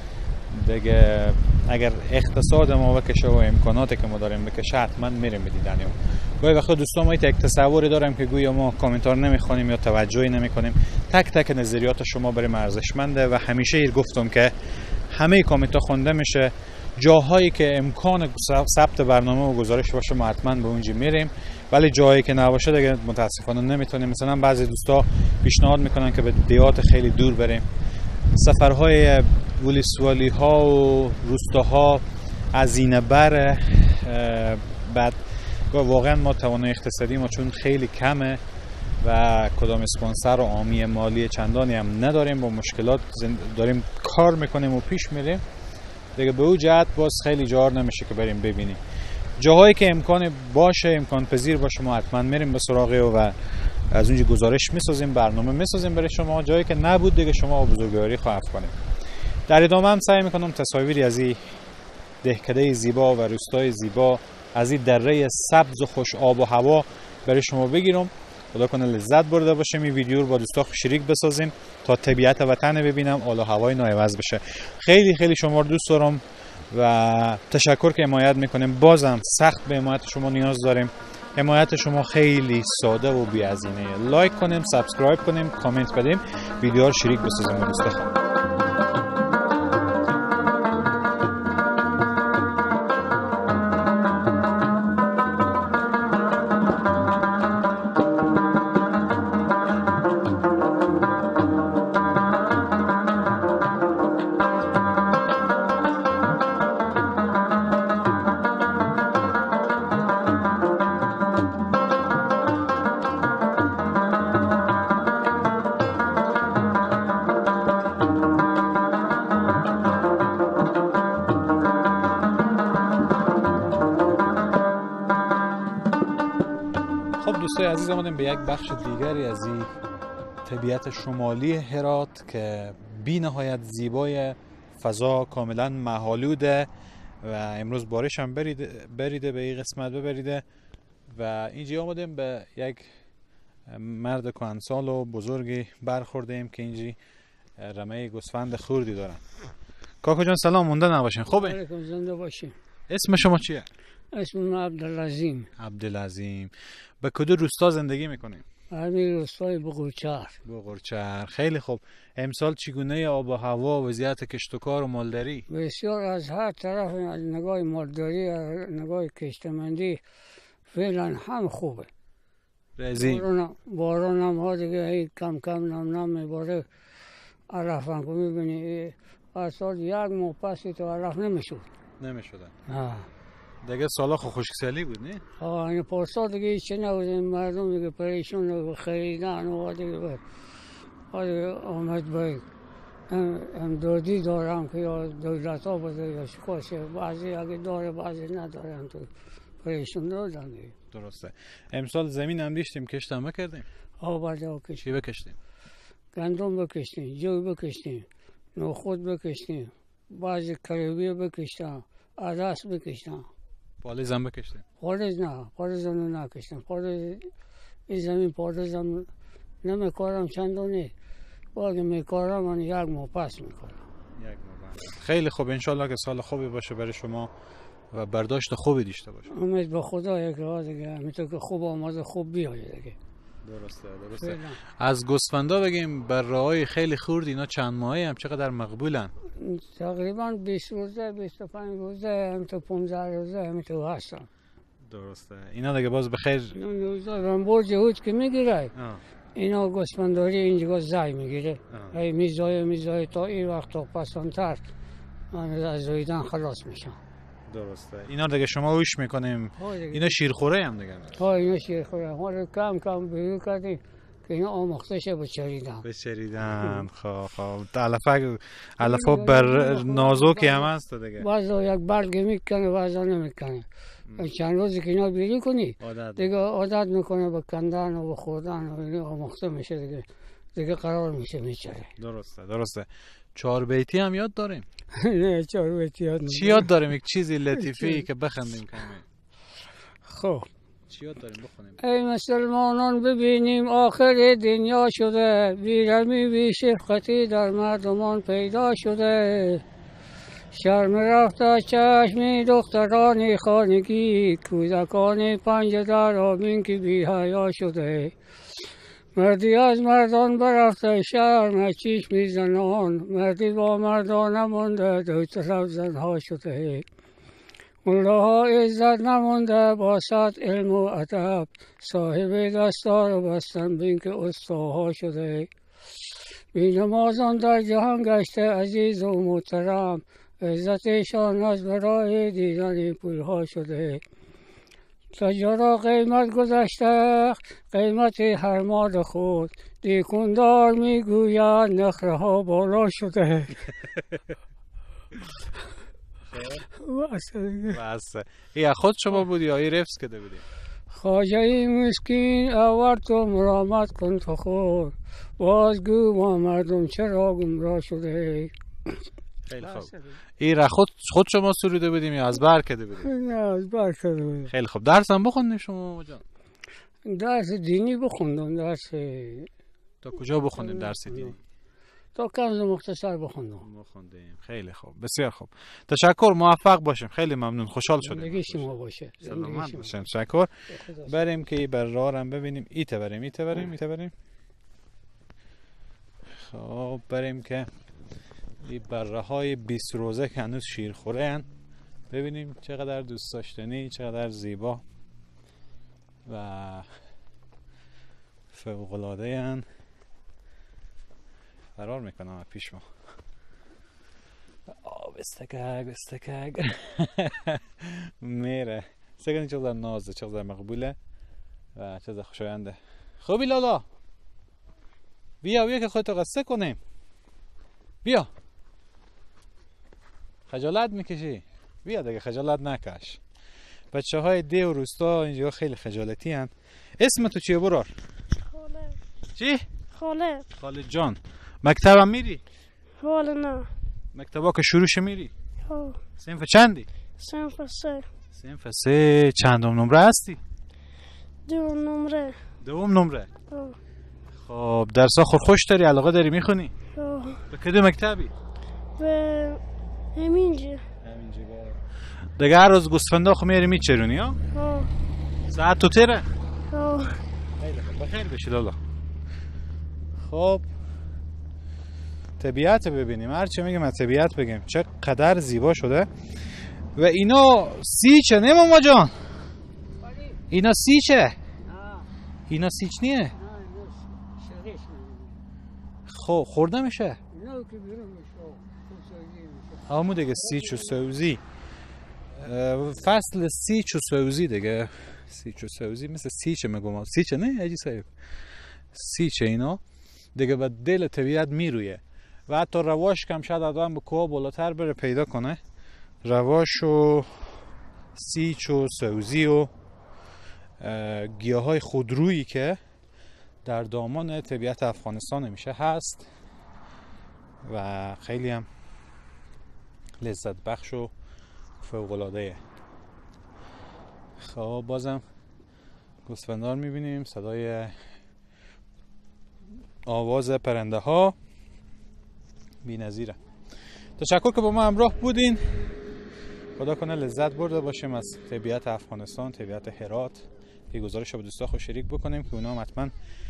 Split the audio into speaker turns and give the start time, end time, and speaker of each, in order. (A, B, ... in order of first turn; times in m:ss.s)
0:00.5-0:14.5 A
0:15.1-0:27.6 A
0:28.3-0:38.4 A
0:39.0-0:45.4 A
0:46.2-0:48.8 A
0:49.4-0:53.3 A
0:53.9-0:58.7 A
0:59.5-1:01.6 A
1:02.2-1:28.1 A
2:07.2-2:09.7 A
2:10.4-2:16.7 A
2:17.2-2:20.4 A
2:21.1-2:22.9 A
2:23.7-2:27.0 A
2:27.6-2:29.2 A
2:30.0-2:31.6 A
2:31.3-2:32.5 B
2:32.9-2:33.7 A
2:34.1-2:35.5 B
2:35.6-2:38.4 A
2:38.7-2:40.3 B
2:40.4-2:45.4 A
2:45.5-2:50.0 B
2:50.7-2:51.9 B
2:52.8-2:53.2 A
2:53.0-2:56.6 B
2:57.5-3:01.6 B
3:02.0-3:02.5 A
3:02.7-3:03.1 B
3:03.6-3:05.2 A
3:05.4-3:10.2 B
3:11.1-3:12.4 B
3:13.1-3:19.1 B
3:19.6-3:20.7 B
3:20.9-3:23.6 A
3:24.0-3:24.9 B
3:24.8-3:25.4 A
3:26.1-3:33.2 B
3:33.8-3:34.6 A
3:34.8-3:37.3 B
3:37.9-3:39.1 B
3:39.6-3:40.9 B
3:41.5-3:43.8 B
3:44.2-3:47.3 A
3:47.9-3:49.3 A
3:49.3-3:53.0 B
3:53.4-3:59.1 A
3:54.2-3:54.6 B
3:59.4-4:04.3 B
4:04.9-4:06.5 A
4:06.6-4:08.7 B
4:08.7-4:09.0 A
4:09.4-4:14.6 B
4:11.7-4:12.0 A
4:15.3-4:17.0 B
4:17.5-4:21.1 A
4:19.6-4:20.2 B
4:21.2-4:25.8 B
4:25.8-4:31.3 A
4:26.6-4:26.8 B
4:28.8-4:33.6 B
4:34.2-4:41.9 B
4:35.8-4:36.4 A
4:42.0-4:44.6 A
4:45.0-4:46.7 B
4:46.3-4:49.0 A
4:47.7-4:48.0 B
4:50.0-4:50.5 B
4:50.9-4:51.8 A
4:51.8-4:59.6 B
5:00.5-5:08.1 B
5:09.1-5:16.8 B
5:17.8-5:25.5 B
5:26.5-5:34.0 B
5:35.1-5:43.6 B
5:46.3-5:46.6 A
5:46.7-5:47.8 B
5:47.7-5:50.4 A
5:50.9-5:59.0 B
5:59.5-6:03.1 A
5:59.6-6:00.2 B
6:03.0-6:04.5 B
6:04.5-6:06.2 A
6:07.0-6:09.5 B
6:10.0-6:11.4 A
6:10.6-6:11.3 B
6:12.1-6:13.6 B
6:13.6-6:18.7 A
6:18.0-6:19.9 B
6:19.2-6:20.5 A
6:20.7-6:21.2 B
6:21.0-6:24.1 A
6:26.4-6:27.7 A
6:28.6-6:31.4 A
6:32.1-6:34.8 A
6:36.2-6:36.9 A
6:38.5-6:39.6 A
6:41.8-6:42.8 A
6:44.7-6:51.0 A
6:51.8-6:53.8 A
6:55.4-6:56.8 A
6:58.0-6:58.3 A
7:00.5-7:03.2 A
7:03.9-7:07.9 A
7:08.4-7:09.0 C
7:09.4-7:09.6 A
7:09.9-7:10.5 C
7:10.6-7:12.4 A
7:13.0-7:13.7 C
7:14.1-7:15.3 A
7:15.6-7:16.0 C
7:16.2-7:16.9 A
7:17.2-7:18.1 C
7:18.3-7:20.4 A
7:21.4-7:22.4 C
7:22.6-7:23.3 A
7:23.5-7:23.8 C
7:24.4-7:26.7 A
7:26.9-7:27.4 C
7:27.5-7:28.3 A
7:29.0-7:29.6 C
7:30.1-7:30.8 C
7:31.0-7:31.8 A
7:32.4-7:34.4 A
7:34.5-7:34.9 C
7:35.5-7:36.3 A
7:36.7-7:37.2 C
7:37.6-7:38.8 A
7:40.2-7:40.6 A
7:42.4-7:46.1 A
7:47.0-7:49.1 A
7:50.0-7:50.4 B
7:50.5-7:51.4 A
7:51.6-7:52.1 B
7:52.5-7:53.3 A
7:53.4-7:55.4 B
7:56.1-7:57.2 A
7:57.3-7:59.8 B
7:59.9-8:01.4 A
8:00.4-8:01.0 B
8:02.3-8:08.1 A
8:08.9-8:09.8 A
8:10.3-8:15.6 A
8:16.2-8:17.5 A
8:18.1-8:19.7 A
8:20.8-8:22.8 A
8:23.6-8:26.3 A
8:27.6-8:28.7 A
8:30.2-8:31.1 A
8:31.8-8:32.6 A
8:34.4-8:35.2 A
8:36.2-8:38.0 A
8:40.0-8:41.3 A
8:42.8-8:43.4 A
8:44.2-8:45.8 A
8:46.8-8:53.1 A